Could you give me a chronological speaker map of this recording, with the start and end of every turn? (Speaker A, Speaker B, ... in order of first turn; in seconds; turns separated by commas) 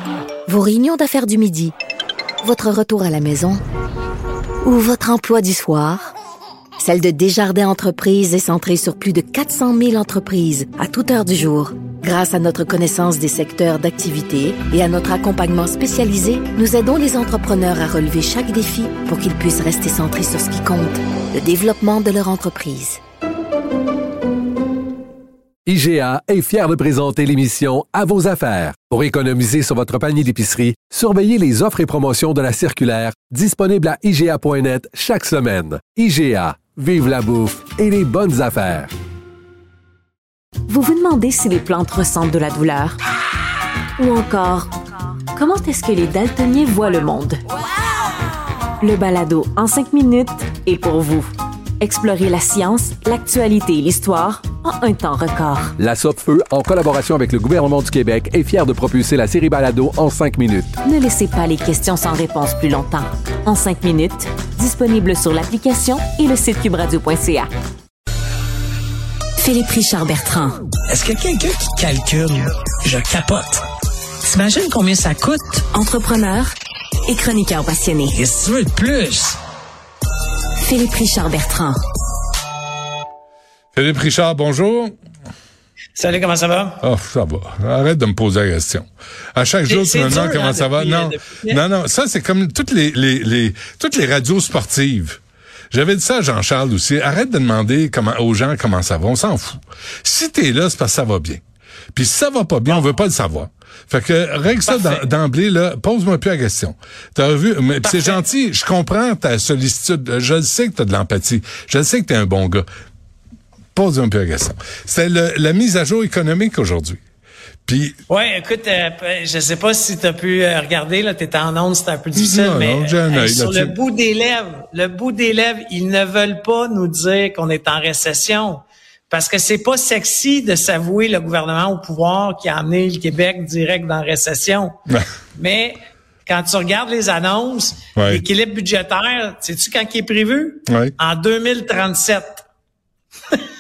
Speaker A: 0.5-1.7, Speaker A: 2.4-3.6, Speaker A: 4.7-6.1, Speaker A: 6.8-23.0, Speaker B: 25.7-38.9, Speaker C: 40.7-43.0, Speaker C: 44.0-44.7, Speaker C: 45.3-47.4, Speaker C: 48.8-55.8, Speaker B: 55.9-60.7, Speaker C: 60.8-67.5, Speaker C: 69.4-70.6, Speaker D: 70.9-73.6, Speaker D: 74.2-75.7, Speaker C: 75.7-76.5, Speaker C: 77.1-78.2, Speaker D: 78.2-79.4, Speaker C: 80.6-81.8, Speaker E: 83.8-84.9, Speaker D: 86.0-86.8, Speaker E: 86.8-95.2, Speaker D: 89.7-91.6, Speaker E: 95.7-101.4, Speaker E: 101.9-112.7, Speaker D: 104.7-105.1, Speaker D: 107.8-108.2, Speaker E: 113.7-117.0, Speaker E: 117.7-118.0, Speaker D: 118.1-134.8, Speaker E: 122.2-123.7, Speaker D: 135.3-142.4, Speaker E: 138.0-138.2, Speaker E: 140.7-140.9